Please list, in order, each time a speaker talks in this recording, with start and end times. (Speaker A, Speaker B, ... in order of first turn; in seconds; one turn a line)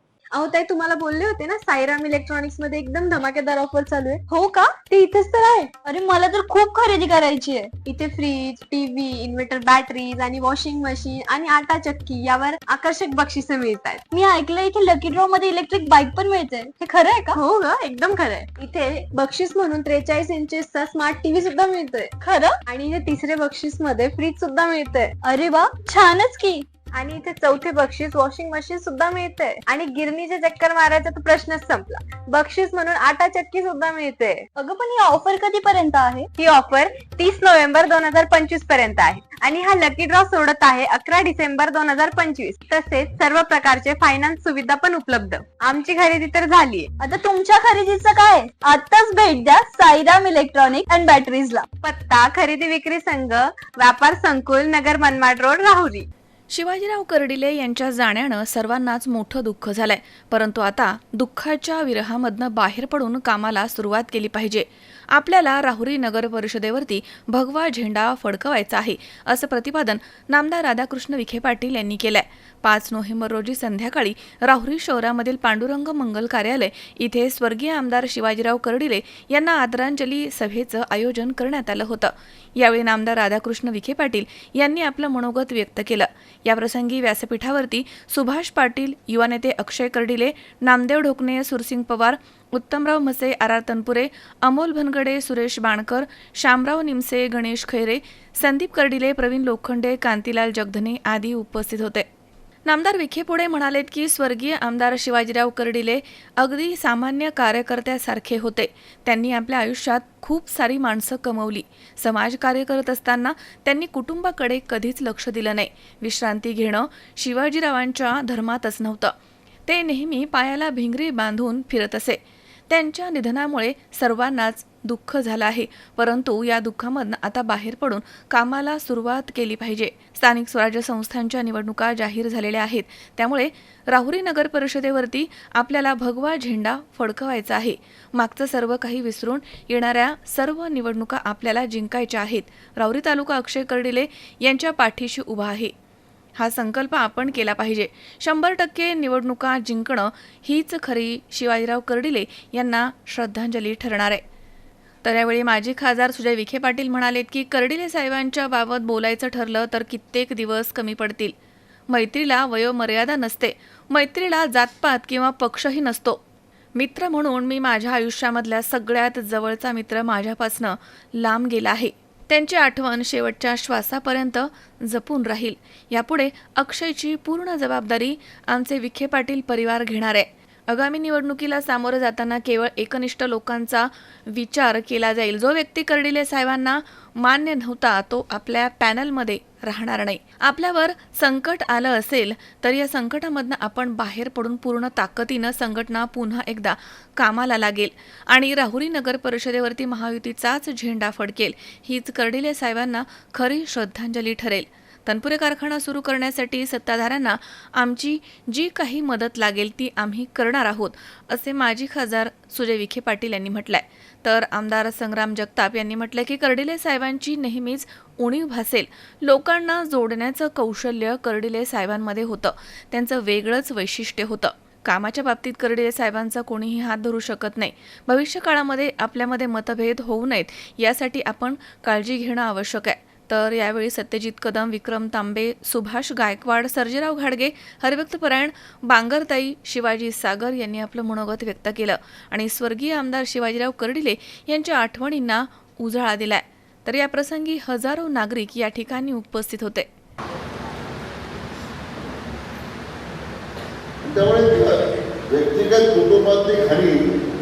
Speaker A: 0.3-5.8
Speaker B: 5.8-7.7
Speaker A: 7.7-14.0
Speaker B: 14.1-17.2
Speaker A: 17.2-25.2
Speaker B: 22.3-22.6
Speaker B: 25.2-26.6
Speaker A: 26.9-34.4
Speaker B: 34.5-36.3
Speaker A: 36.3-46.9
Speaker B: 47.0-51.7
Speaker A: 51.7-56.1
Speaker C: 56.5-102.0
Speaker C: 102.6-119.1
Speaker C: 119.7-145.7
Speaker C: 146.4-154.2
Speaker C: 155.0-161.3
Speaker C: 161.9-166.2
Speaker C: 166.7-249.9
Speaker D: 254.0-257.1